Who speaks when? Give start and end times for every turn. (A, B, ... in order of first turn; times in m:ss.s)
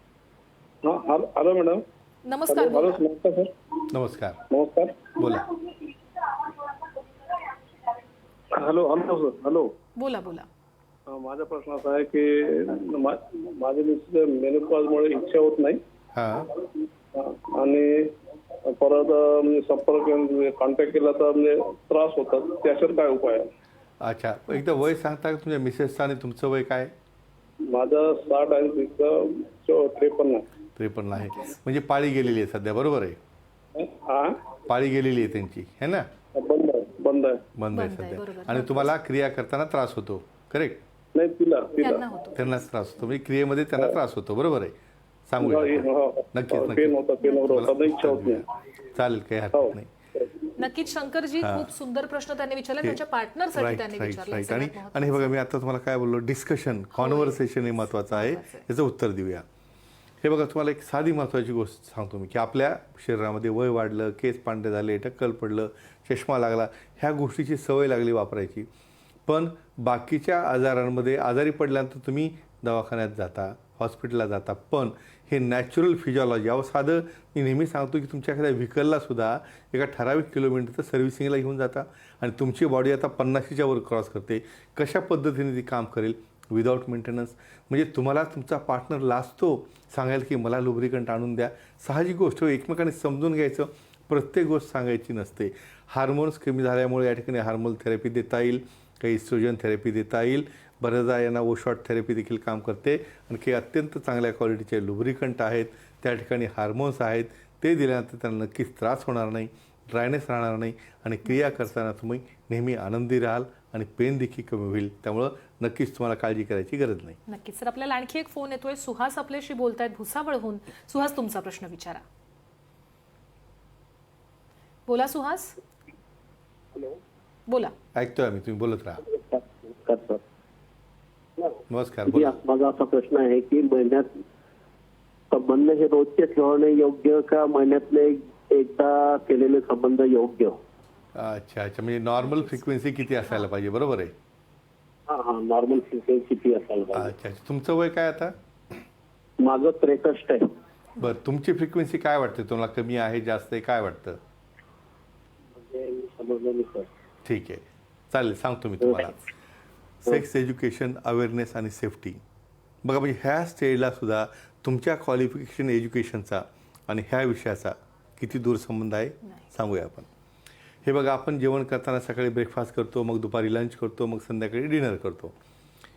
0:00.8-0:01.8 A
0:02.3-0:03.0 B
0:02.5-0:03.5 A
0:03.9-0:04.4 C
0:04.5-0:05.2 A
0:05.2-0:05.5 C
0:06.3-0:06.7 A
0:08.5-0:09.7 A
0:10.0-0:10.5 B
0:11.1-0:15.8 A
0:16.2-0:16.5 C
0:17.1-0:18.1 A
0:18.7-0:23.5 A
0:24.0-0:26.9 C
0:27.7-0:30.4 A
0:30.8-0:33.2 C
0:31.2-0:31.5 B
0:33.8-0:34.6 A
0:34.7-0:36.1 C
0:36.3-0:37.4 A
0:37.6-0:40.8 C
0:37.7-0:39.0 B
0:41.2-0:42.1 A
0:41.8-0:42.4 B
0:42.4-0:44.8 C
0:45.3-0:49.9 C
0:45.4-0:48.4 A
0:47.2-0:47.7 B
0:49.6-0:50.4 A
0:50.6-0:55.4 B
0:51.4-0:51.7 C
0:53.6-0:59.4 C
0:57.0-0:58.6 B
1:00.2-1:08.7 C
1:09.3-1:57.2 C
1:51.2-1:51.7 B
1:57.3-2:02.0 B
2:04.9-2:05.6 B
2:07.5-2:07.7 B
2:08.0-2:09.0 C
2:09.0-2:10.2 D
2:11.4-2:14.2 D
2:11.7-2:12.4 C
2:15.3-2:20.6 D
2:21.2-2:24.2 C
2:25.1-2:27.1 D
2:26.9-2:28.4 C
2:29.4-2:30.5 D
2:31.0-2:34.2 C
2:35.6-2:36.9 D
2:37.2-2:39.2 C
2:38.8-2:39.1 D
2:40.0-2:42.2 C
2:42.8-2:50.1 C
2:50.8-2:55.4 C